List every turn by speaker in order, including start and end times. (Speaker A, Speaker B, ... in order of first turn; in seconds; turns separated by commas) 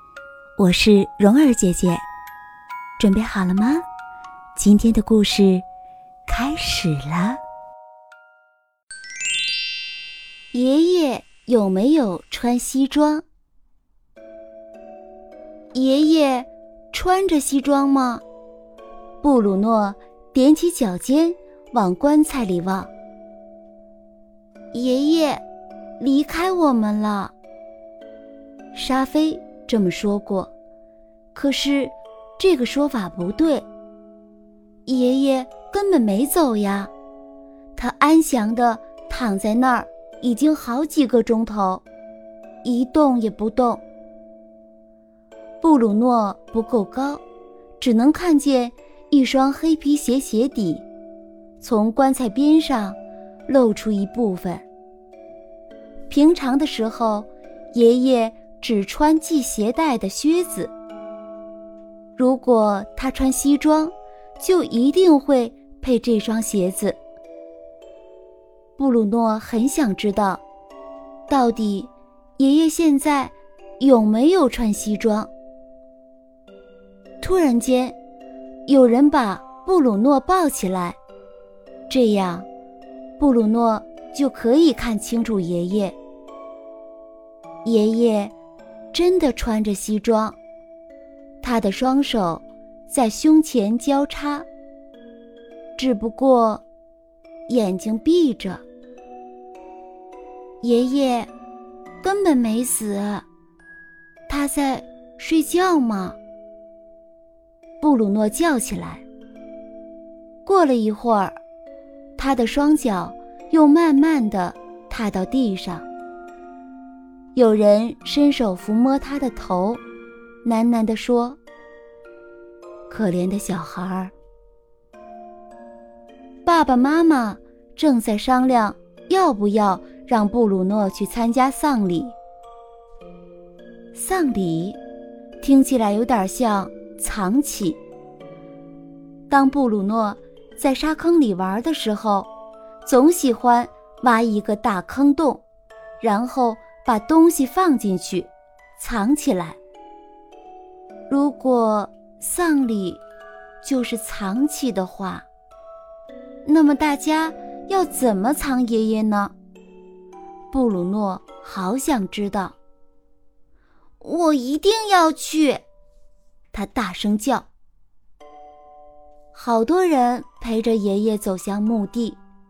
Speaker A: 0.6-2.1, Speaker A: 3.0-3.8, Speaker A: 4.5-5.7, Speaker A: 6.3-7.4, Speaker A: 10.5-13.2, Speaker A: 15.7-18.2, Speaker A: 19.2-22.9, Speaker A: 24.7-25.4, Speaker A: 26.0-27.3, Speaker A: 28.7-30.5, Speaker A: 31.3-33.7, Speaker A: 34.9-36.9, Speaker A: 37.8-41.8, Speaker A: 42.6-43.8, Speaker A: 45.6-47.2, Speaker A: 47.8-50.9, Speaker A: 51.6-54.6, Speaker A: 56.1-60.7, Speaker A: 62.2-67.0, Speaker A: 68.8-70.4, Speaker A: 71.3-75.3, Speaker A: 77.2-78.0, Speaker A: 78.7-81.0, Speaker A: 81.9-82.5, Speaker A: 83.2-86.0, Speaker A: 87.6-88.3, Speaker A: 88.9-90.4, Speaker A: 91.4-94.5, Speaker A: 95.8-96.6, Speaker A: 97.5-98.6, Speaker A: 100.6-101.3, Speaker A: 102.0-103.2, Speaker A: 104.3-106.2, Speaker A: 107.8-109.0, Speaker A: 110.5-111.4, Speaker A: 112.2-115.9, Speaker A: 117.3-119.8, Speaker A: 120.4-121.4, Speaker A: 122.9-124.1, Speaker A: 126.5-132.2, Speaker A: 133.9-134.8, Speaker A: 135.4-137.8, Speaker A: 139.3-142.3, Speaker A: 142.8-145.4, Speaker A: 146.0-149.6, Speaker A: 151.1-153.0, Speaker A: 153.6-155.3, Speaker A: 156.4-159.3, Speaker A: 160.5-162.6, Speaker A: 164.0-165.6, Speaker A: 166.5-167.5, Speaker A: 169.3-172.2